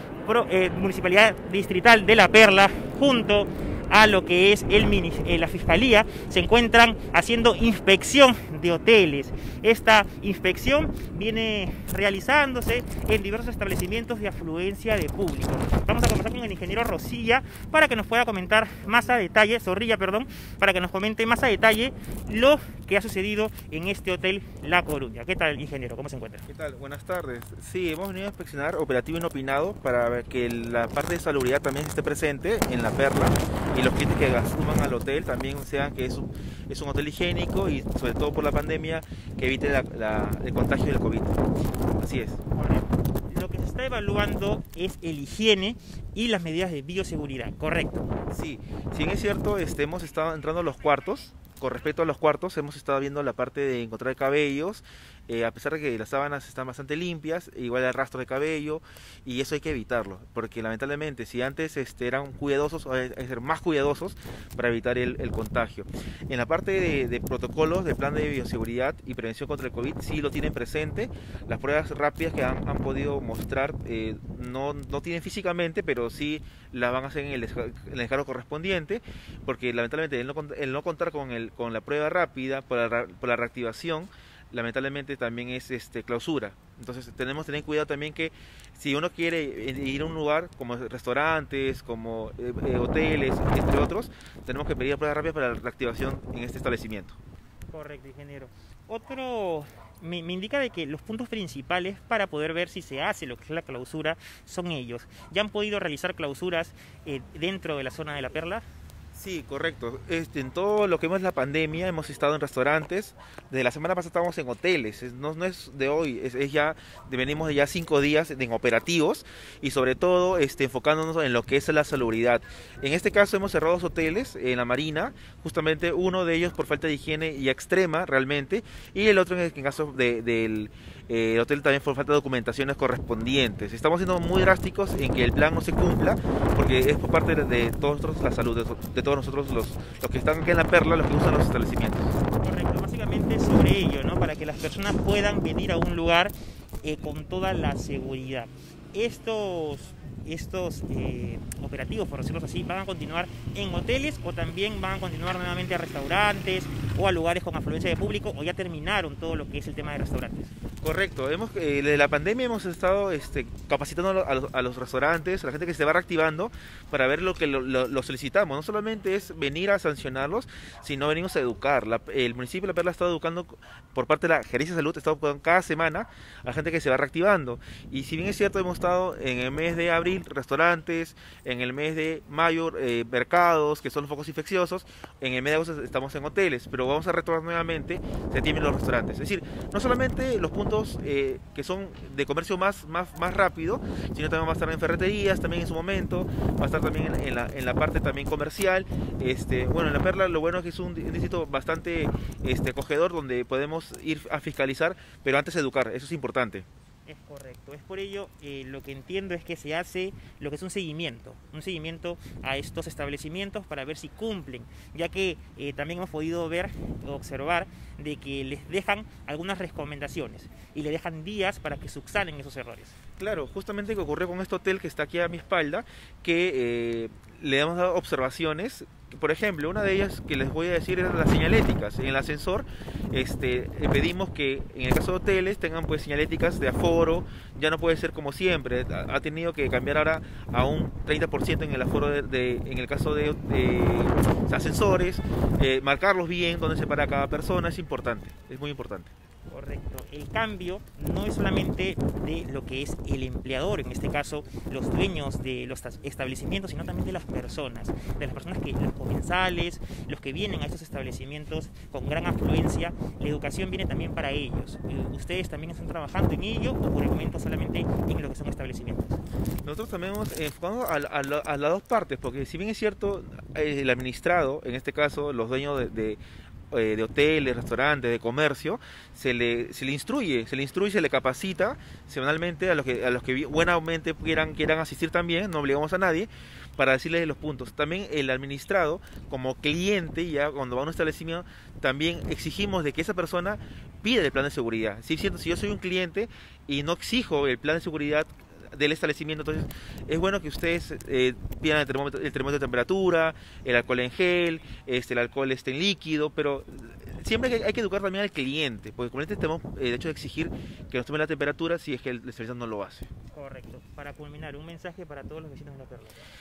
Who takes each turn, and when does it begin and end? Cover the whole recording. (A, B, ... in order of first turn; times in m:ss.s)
0:00.2-0:26.4 A
0:26.5-0:41.4 B
0:42.0-0:42.4 B
0:42.5-0:48.1 A
0:48.3-1:37.2 B
1:37.7-1:48.6 A
1:49.1-2:22.1 B
2:22.4-2:40.5 A
2:40.8-3:26.7 B
3:27.1-3:43.0 A
3:43.2-4:09.1 B
4:09.5-4:29.2 A
4:29.6-4:36.2 B
4:36.7-5:13.1 B
5:13.3-5:16.2 A